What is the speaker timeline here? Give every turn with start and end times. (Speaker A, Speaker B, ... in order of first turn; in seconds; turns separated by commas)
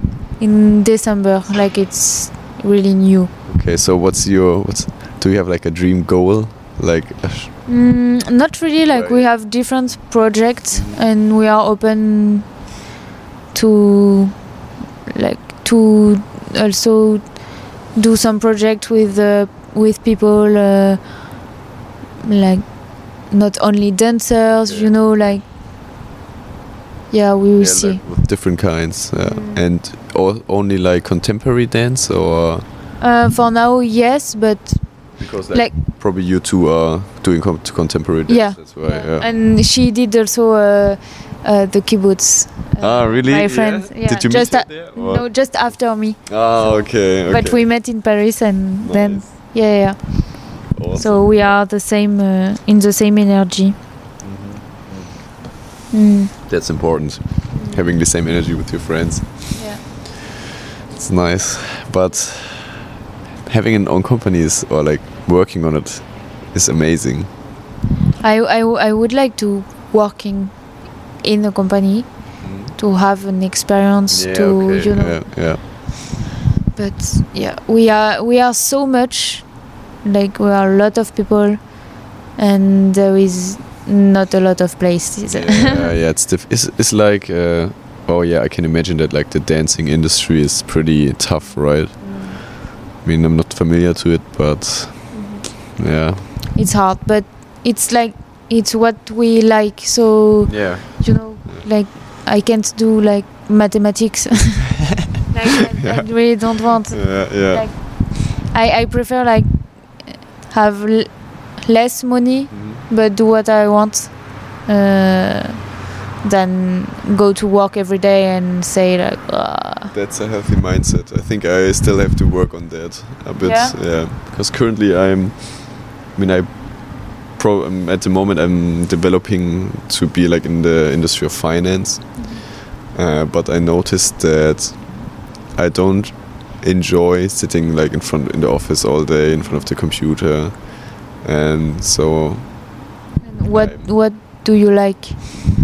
Speaker A: 0.4-3.3, Speaker B: 3.5-7.6, Speaker A: 7.7-12.6, Speaker B: 8.8-9.2, Speaker B: 10.7-11.0, Speaker A: 13.5-21.5, Speaker A: 22.2-25.4, Speaker B: 24.6-25.4, Speaker A: 27.1-28.0, Speaker B: 27.6-32.6, Speaker A: 29.2-29.6, Speaker A: 33.0-35.8, Speaker B: 35.2-39.3, Speaker A: 38.3-53.8, Speaker B: 42.8-47.9, Speaker B: 48.8-49.5, Speaker B: 50.7-51.6, Speaker B: 54.2-55.4, Speaker A: 55.9-56.3, Speaker B: 56.5-59.6, Speaker A: 57.5-57.8, Speaker A: 59.5-59.8, Speaker B: 60.9-62.9, Speaker B: 63.4-67.3, Speaker A: 68.2-75.7, Speaker B: 72.4-72.8, Speaker B: 74.1-75.7, Speaker A: 76.7-85.9, Speaker B: 85.2-96.3, Speaker A: 92.0-92.4, Speaker A: 95.1-95.4, Speaker A: 96.5-115.7, Speaker B: 100.5-101.7, Speaker B: 105.8-107.8, Speaker B: 112.5-112.8, Speaker A: 116.2-119.9, Speaker B: 119.9-142.8, Speaker A: 123.4-123.8, Speaker A: 132.2-132.4, Speaker A: 139.4-139.7, Speaker A: 143.2-145.4, Speaker B: 143.5-143.9